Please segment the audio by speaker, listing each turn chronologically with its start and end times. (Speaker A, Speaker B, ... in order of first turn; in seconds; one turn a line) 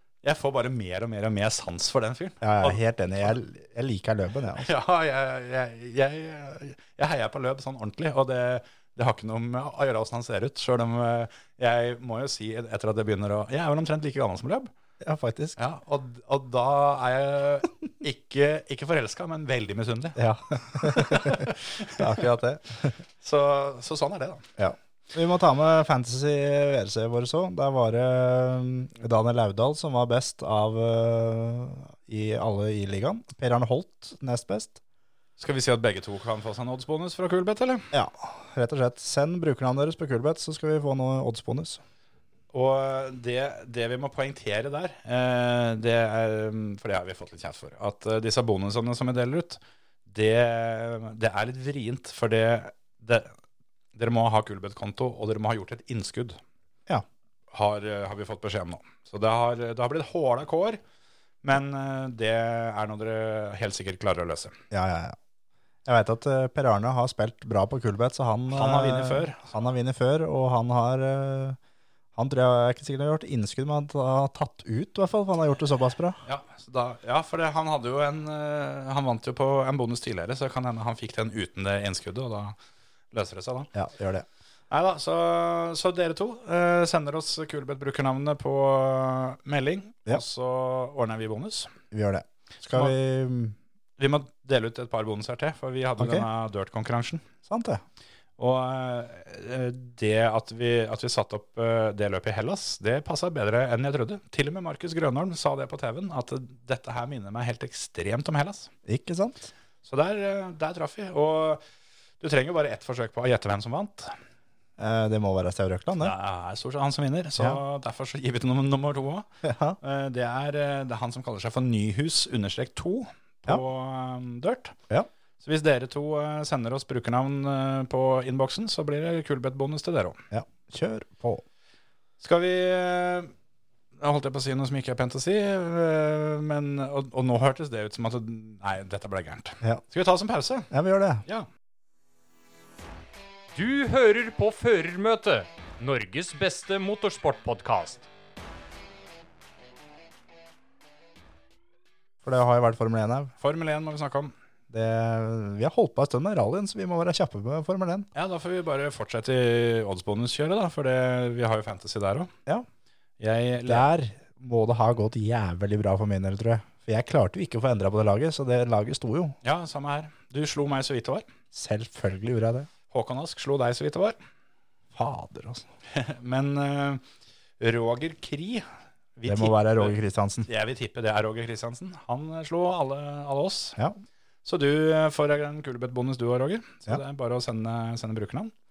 Speaker A: 0.2-3.3
Speaker B: 2.4-4.7
Speaker A: 4.5-14.7
Speaker B: 15.0-15.6
Speaker A: 15.6-22.0
Speaker B: 20.1-23.0
Speaker A: 23.2-24.4
Speaker B: 24.6-34.8
Speaker A: 35.4-37.9
Speaker B: 37.9-41.8
Speaker A: 42.5-53.3
Speaker A: 53.9-56.4
Speaker A: 57.5-60.8
Speaker A: 61.4-64.6
Speaker B: 64.7-65.2
Speaker B: 65.8-71.6
Speaker A: 68.5-69.4
Speaker B: 72.1-76.2
Speaker A: 76.2-82.5
Speaker A: 83.1-83.7
Speaker B: 83.7-84.2
Speaker A: 84.7-91.7
Speaker B: 91.9-93.5
Speaker A: 94.0-97.3
Speaker B: 96.0-96.3
Speaker B: 97.5-97.8
Speaker A: 98.4-108.7
Speaker B: 108.8-109.5
Speaker A: 109.8-111.6
Speaker A: 112.2-114.1
Speaker B: 114.8-116.1
Speaker A: 116.0-119.3
Speaker B: 119.4-119.8
Speaker A: 119.8-124.8
Speaker A: 125.4-130.2
Speaker B: 130.3-131.4
Speaker A: 132.2-133.3
Speaker A: 134.0-140.7
Speaker B: 140.7-141.2
Speaker C: 143.5-148.1
Speaker B: 152.2-153.3
Speaker A: 153.4-154.3
Speaker B: 154.7-158.1
Speaker A: 158.1-162.3
Speaker A: 163.2-163.8
Speaker B: 163.7-169.3
Speaker A: 169.4-171.2
Speaker B: 171.5-172.7
Speaker A: 172.9-174.2
Speaker B: 174.9-175.7
Speaker A: 175.9-177.0
Speaker A: 177.6-183.8
Speaker B: 179.2-180.5
Speaker A: 184.4-188.5